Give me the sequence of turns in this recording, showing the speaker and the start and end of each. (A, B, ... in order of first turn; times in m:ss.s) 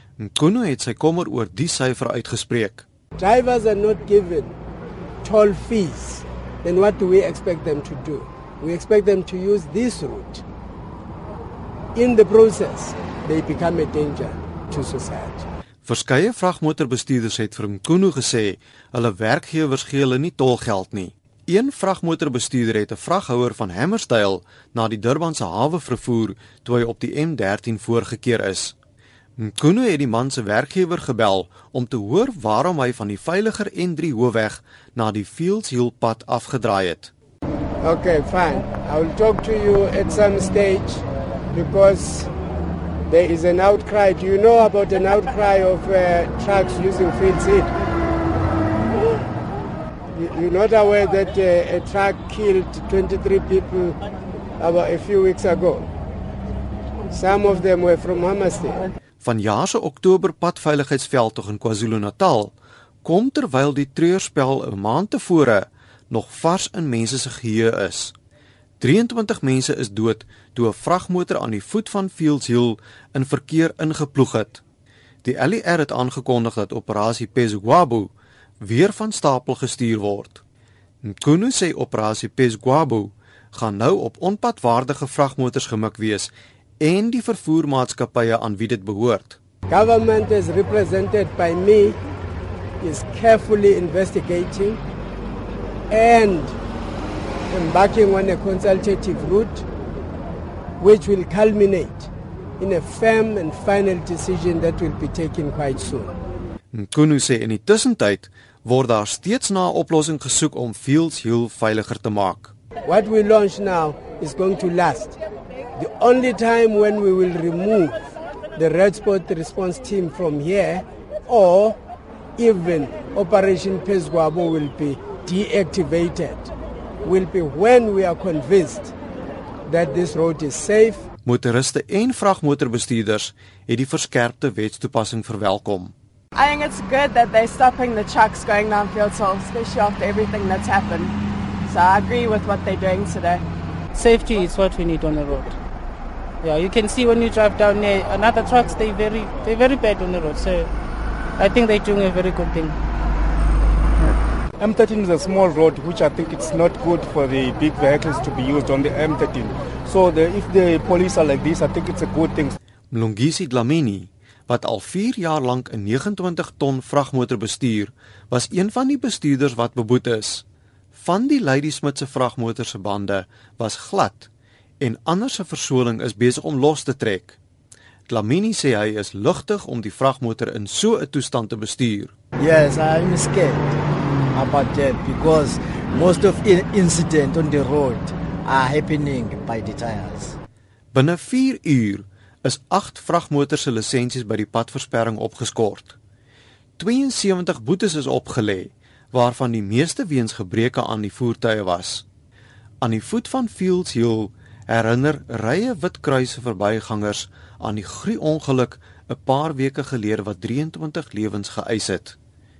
0:00.2-0:02.9 A
0:03.2-0:04.6 B
0:05.2-0:10.4 B
0:12.0-0:15.5 B
0:15.8-0:28.8 A
0:29.4-0:37.1 A
0:37.8-0:42.3 B
0:43.1-0:47.7 B
0:50.1-0:54.0 B
0:54.6-0:55.9 B
0:57.1-0:58.9 B
0:59.2-1:08.1 A
1:08.8-1:14.6 A
1:15.2-1:18.1 A
1:18.6-1:20.4 A
1:21.0-1:29.4 A
1:29.7-1:32.0 B
1:32.8-1:34.8 B
1:35.9-1:36.6 B
1:37.5-1:39.6 B
1:40.8-1:46.1 B
1:46.7-1:52.5 A
1:52.9-1:55.2 B
1:55.8-2:01.8 B
2:02.4-2:06.5 B
2:07.0-2:08.9 B
2:09.7-2:11.1 B
2:11.2-2:15.9 A
2:16.4-2:23.4 C
2:24.0-2:25.6 D
2:26.4-2:30.7 D
2:31.4-2:32.8 D
2:34.6-2:42.6 E
2:42.9-2:54.3 A
2:54.8-2:57.4 A
2:58.1-3:02.1 A
3:02.4-3:03.8 F
3:04.3-3:10.4 F
3:10.9-3:16.0 A
3:16.8-3:22.0 A
3:22.8-3:32.2 A